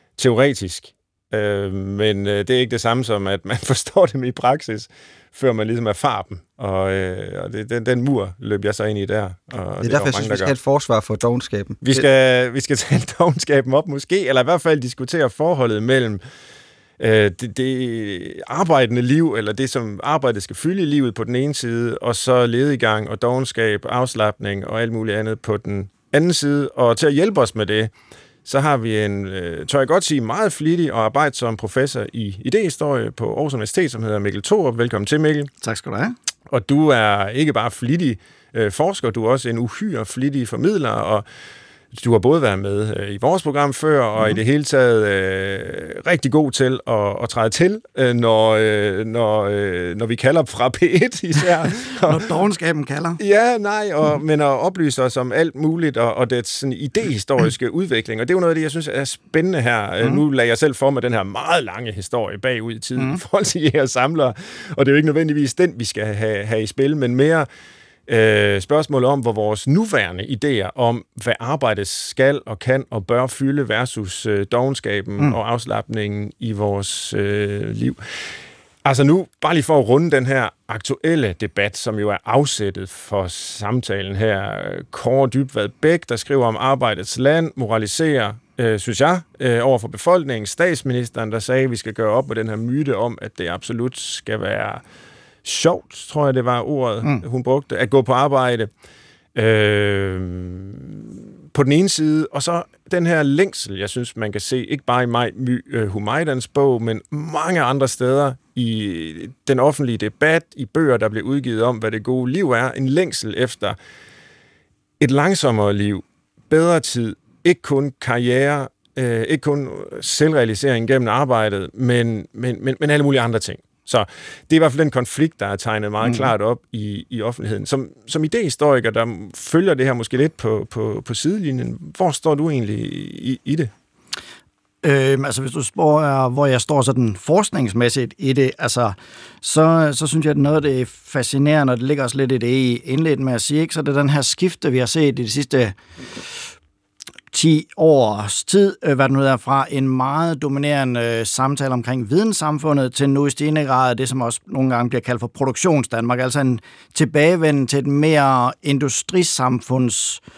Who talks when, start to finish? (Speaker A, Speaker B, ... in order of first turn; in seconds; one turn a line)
Speaker A: 0.2-10.5
Speaker B: 9.8-12.1
Speaker A: 11.8-16.2
Speaker A: 17.0-27.9
Speaker A: 28.5-35.5
Speaker C: 35.6-36.1
Speaker A: 36.5-41.2
Speaker A: 41.9-52.3
Speaker C: 51.7-53.2
Speaker A: 53.2-67.5
Speaker A: 68.1-78.0
Speaker A: 78.8-94.8
Speaker A: 95.4-98.7
Speaker A: 99.3-113.8
Speaker A: 115.0-133.7
Speaker C: 126.0-126.3
Speaker C: 134.8-145.8
Speaker C: 147.3-160.2